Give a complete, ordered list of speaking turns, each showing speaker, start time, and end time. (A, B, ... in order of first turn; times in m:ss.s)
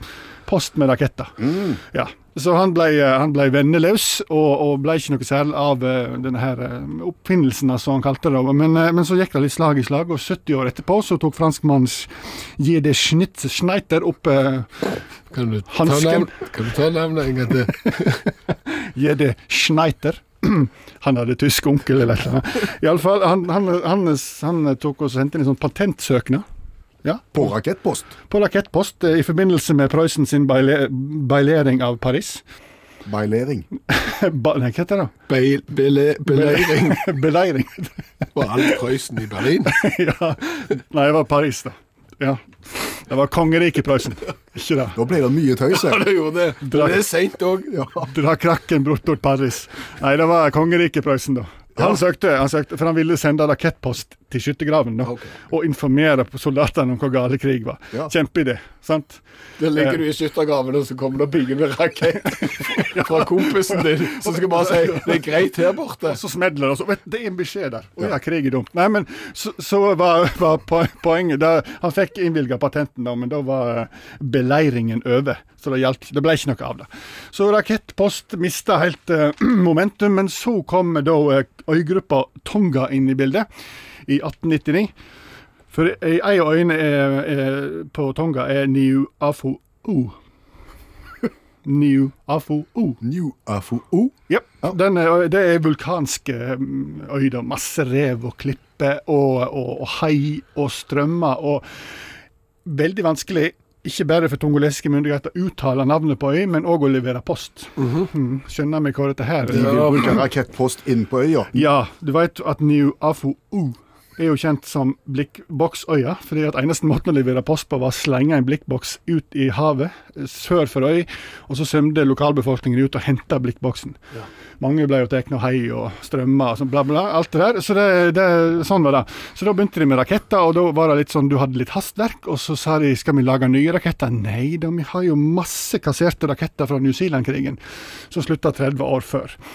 0:00.4-0:14.8 A
0:15.3-0:18.2 B
0:15.7-0:16.4 A
0:17.8-0:26.4 A
0:27.0-0:27.4 A
0:27.3-0:28.1 C
0:28.3-0:32.4 A
0:33.0-0:33.7 C
0:33.9-0:35.1 A
0:35.3-0:37.1 B
0:36.3-0:37.9 A
0:38.3-0:39.8 B
0:39.6-0:45.0 A
0:44.9-0:46.0 C
0:45.7-0:47.8 B
0:46.6-0:47.0 A
0:47.7-0:48.0 C
0:48.0-0:59.2 A
0:55.0-0:55.3 B
0:59.6-1:06.2 B
1:02.3-1:05.5 A
1:06.1-1:23.4 A
1:24.1-1:24.9 A
1:25.7-1:30.2 A
1:31.6-1:33.0 A
1:33.0-1:34.7 C
1:34.3-1:41.6 A
1:42.6-1:50.2 A
1:47.8-1:48.1 B
1:49.5-1:51.7 C
1:49.5-1:50.1 B
1:51.5-2:04.0 A
2:04.6-2:17.6 A
2:18.1-2:19.4 A